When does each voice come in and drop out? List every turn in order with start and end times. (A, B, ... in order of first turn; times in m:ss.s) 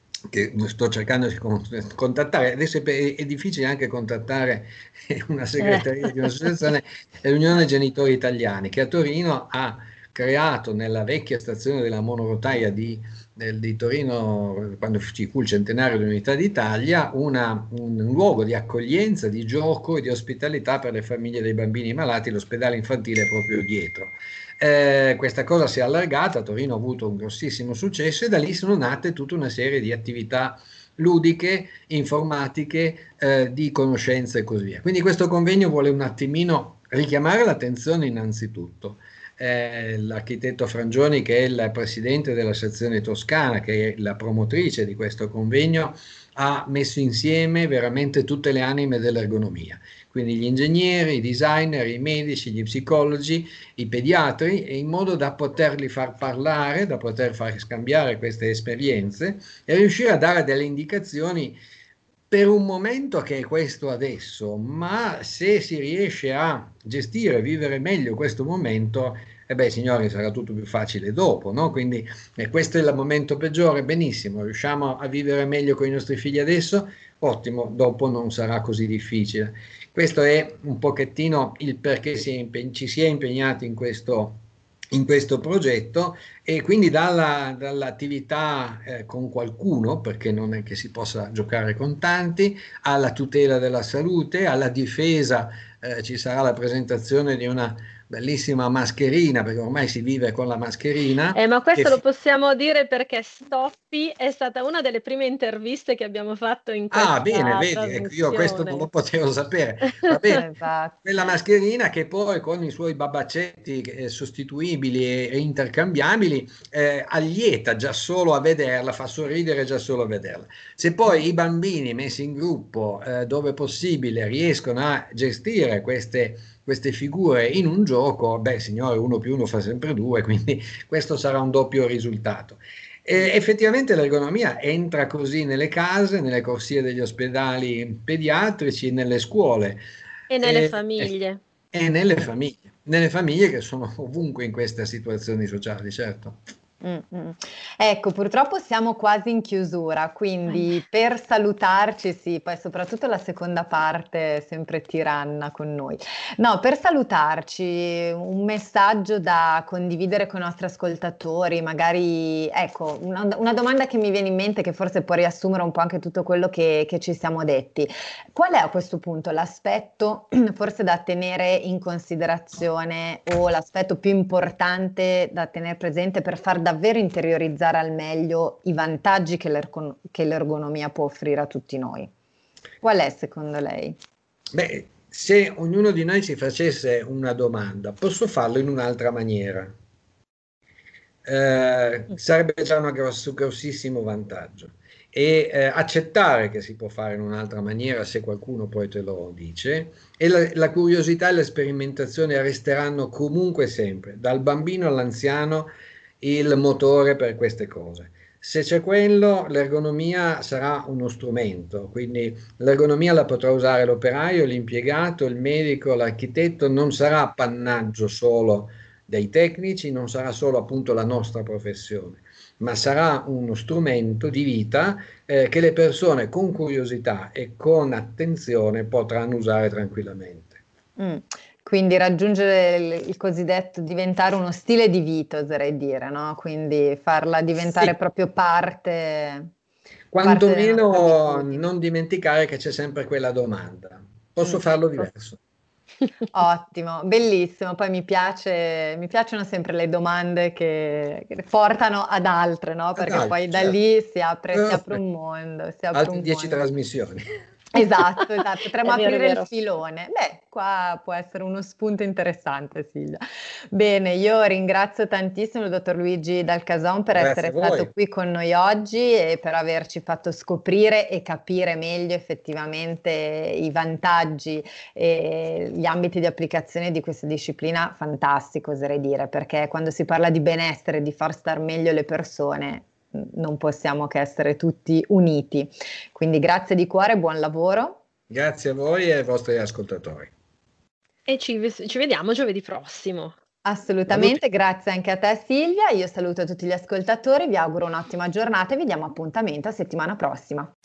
0:00.3-1:01.6 A
1:02.3-1:24.4 A
1:24.9-1:42.0 A
1:41.3-1:48.9 B
1:46.9-1:50.4 A
1:50.1-1:50.4 B
1:50.3-1:51.0 C
1:51.0-2:19.8 A
2:20.3-2:21.4 B
2:20.4-2:21.1 A
2:21.7-2:26.4 A
2:26.8-3:02.1 C
3:02.8-3:04.0 C
3:04.5-3:09.7 A
3:11.2-3:25.7 A
3:26.2-3:50.6 A
3:51.0-3:59.5 C
3:57.6-3:57.9 A
4:00.1-4:05.4 A
4:00.2-4:01.6 C
4:06.3-4:16.7 C
4:13.0-4:13.8 A
4:14.5-4:15.0 A
4:15.9-4:17.2 A
4:17.7-4:23.2 C
4:18.8-4:19.5 B
4:23.7-4:48.0 C
4:27.2-4:27.9 A
4:48.3-4:50.3 A
4:51.3-4:53.4 B
4:53.6-5:00.7 C
4:54.1-4:54.4 A